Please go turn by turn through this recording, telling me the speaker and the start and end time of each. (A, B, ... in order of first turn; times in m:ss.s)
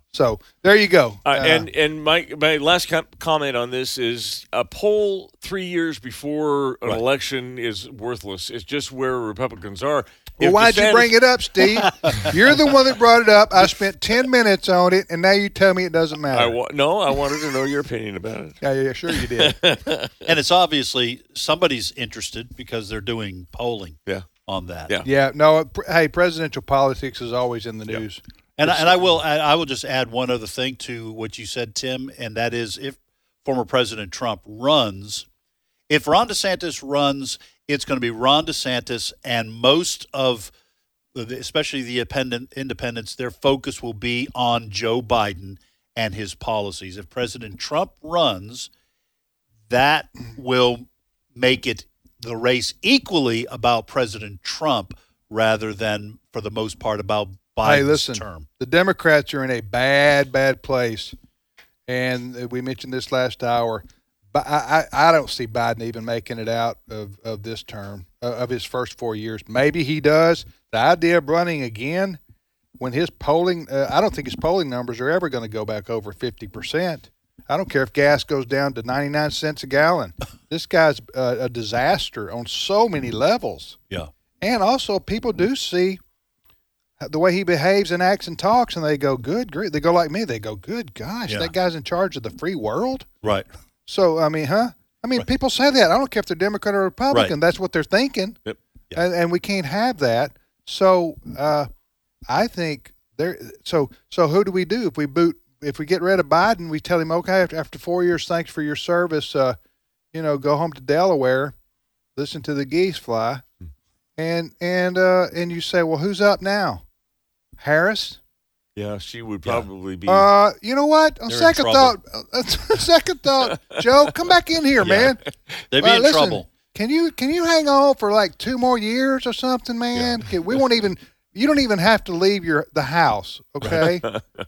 0:00.1-0:01.7 A
0:01.2-0:11.2 B
0:10.4-0:16.6 A
0:11.8-0:12.3 C
0:16.3-0:18.6 B
0:18.6-0:19.6 A
0:19.1-0:20.3 B
0:20.2-0:24.9 C
0:25.0-0:29.1 A
0:28.6-0:35.2 C
0:35.9-0:40.5 C
0:41.1-0:48.7 C
0:49.7-0:58.5 C
0:57.6-1:01.1 A
1:01.9-1:12.2 A
1:12.8-1:23.8 A
1:24.4-1:26.0 A
1:27.0-1:33.1 A
1:31.3-1:31.5 C
1:33.9-1:38.4 A
1:38.9-1:41.7 A
1:42.3-1:49.6 A
1:50.1-1:51.6 A
1:52.2-1:53.4 A
1:54.2-1:56.8 A
1:57.6-1:58.2 A
1:58.8-2:00.3 B
2:00.1-2:05.2 A
2:01.3-2:02.0 C
2:03.5-2:03.8 B
2:04.8-2:05.1 C
2:05.7-2:06.5 C
2:05.8-2:14.1 A
2:13.7-2:14.2 B